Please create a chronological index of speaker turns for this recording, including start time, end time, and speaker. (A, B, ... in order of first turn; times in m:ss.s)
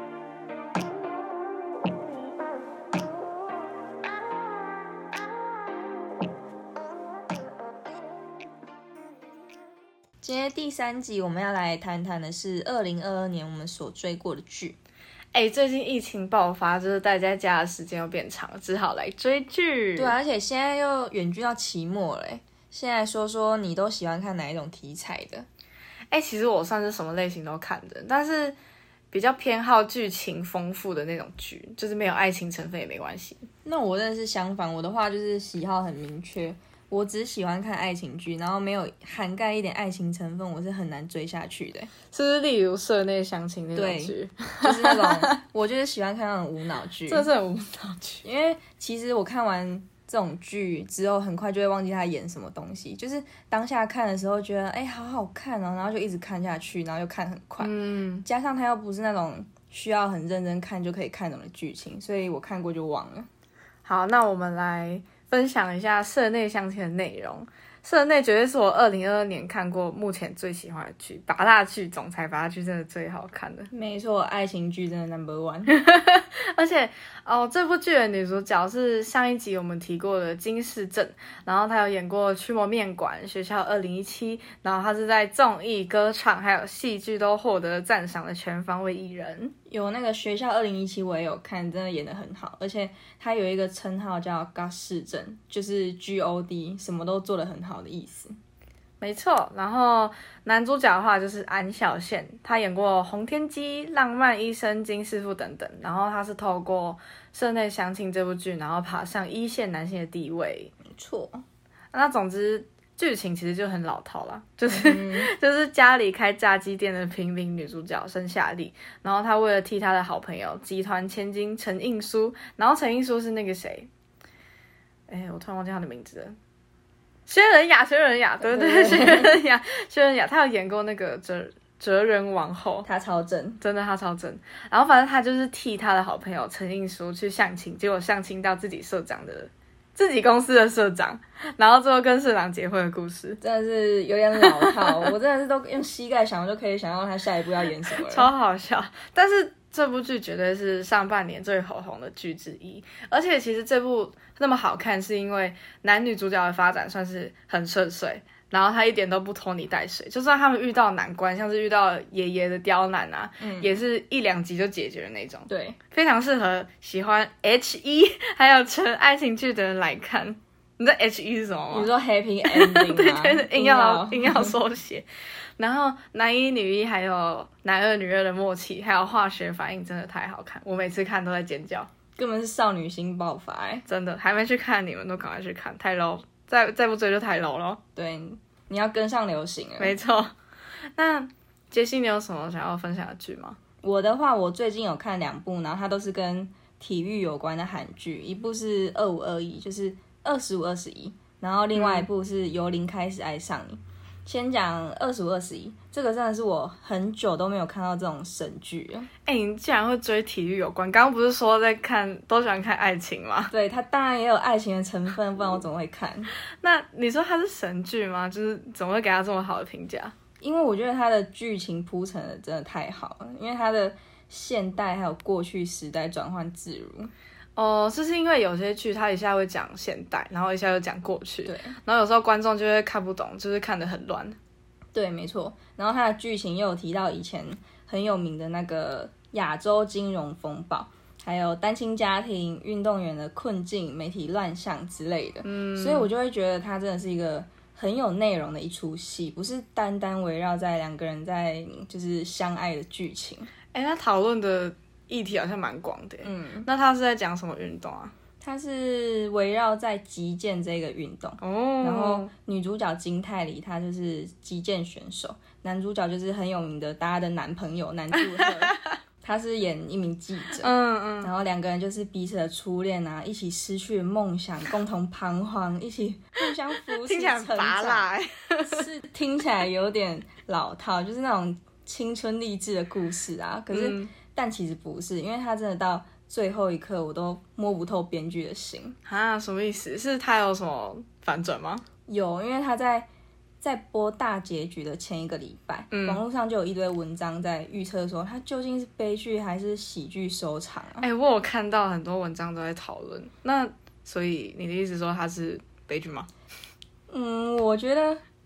0:10.2-0:14.8 A
0:15.3-0:20.2 B
0:20.0-0:25.5 A
0:26.1-0:28.6 B
0:29.1-0:33.4 B
0:33.6-0:41.9 A
0:42.1-0:45.4 B
0:43.8-0:47.3 A
0:47.1-0:48.2 B
0:48.2-0:57.7 A
0:57.6-0:58.3 B
0:58.2-1:03.3 A
1:03.8-1:13.7 B
1:13.7-1:15.7 A
1:15.7-1:29.5 B
1:29.7-1:38.3 A
1:39.0-1:50.7 B
1:50.9-1:51.4 A
1:51.9-2:03.9 B
1:54.7-1:55.3 A
2:05.1-2:06.4 B
2:07.3-2:12.9 B
2:08.4-2:09.3 A
2:12.9-2:13.6 A
2:13.6-2:23.4 B
2:23.4-2:28.3 A
2:24.4-2:25.1 B
2:27.9-2:51.9 B
2:43.4-2:43.8 A
2:45.5-2:45.8 A
2:51.7-2:54.5 A
2:52.5-2:55.1 B
2:55.6-3:01.9 B
3:02.2-3:03.8 A
3:03.9-3:07.8 B
3:08.0-3:10.0 A
3:09.8-3:10.3 B
3:11.0-3:13.6 B
3:13.8-3:29.1 A
3:21.7-3:22.1 B
3:29.3-3:33.5 B
3:33.5-3:36.3 A
3:36.6-3:40.2 B
3:40.4-3:47.1 A
3:47.6-3:54.4 B
3:51.5-3:51.8 A
3:54.9-4:13.5 A
4:05.4-4:06.1 B
4:13.7-4:18.1 B
4:16.2-4:16.7 A
4:18.4-4:38.0 A
4:21.4-4:22.3 B
4:28.1-4:28.9 B
4:30.6-4:31.3 B
4:37.0-4:38.9 B
4:38.7-4:49.0 A
4:43.7-4:44.1 B
4:49.1-4:51.8 B
4:52.1-4:53.1 A
4:53.6-5:01.1 A
4:55.9-4:56.2 B
5:01.0-5:06.3 B
5:07.1-5:08.2 A